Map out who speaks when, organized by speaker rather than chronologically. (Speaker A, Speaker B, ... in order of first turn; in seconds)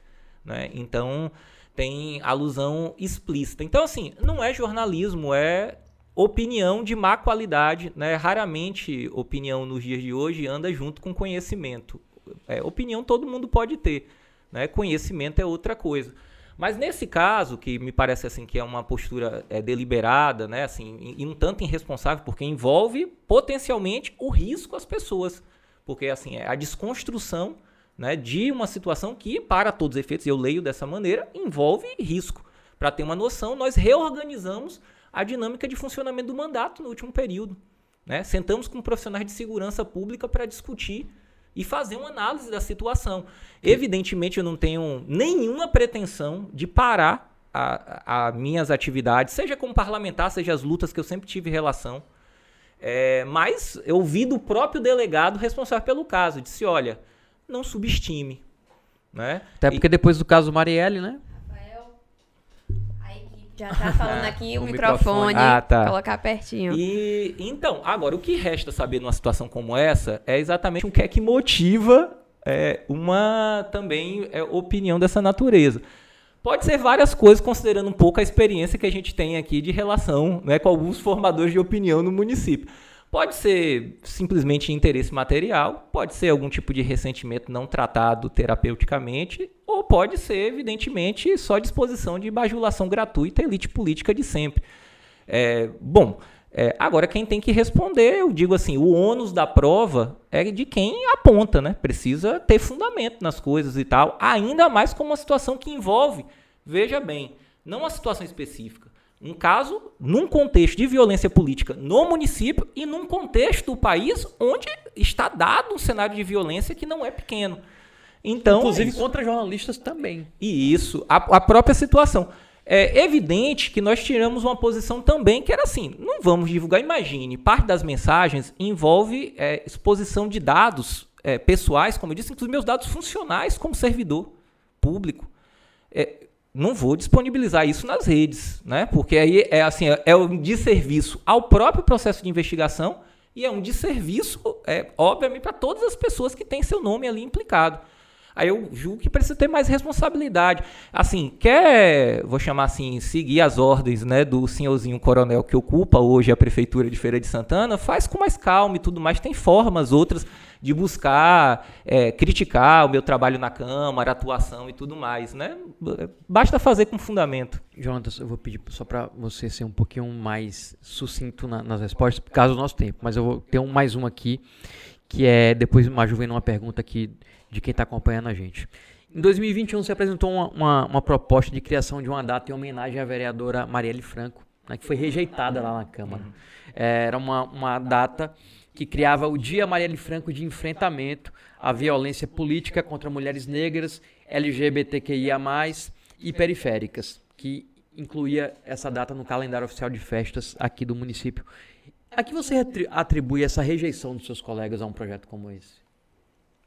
Speaker A: 0.4-52.0, 52.8-58.4, 59.1-59.8, 65.3-65.9, 66.7-75.8, 76.4-94.6, 95.3-117.6, 118.2-119.0, 120.4-135.3, 135.9-147.8, 148.3-167.6
Speaker B: 59.6-61.2, 63.8-65.6, 118.5-120.3, 167.8-174.4, 175.1-201.5, 202.1-205.8
Speaker C: 61.4-61.9, 63.0-66.8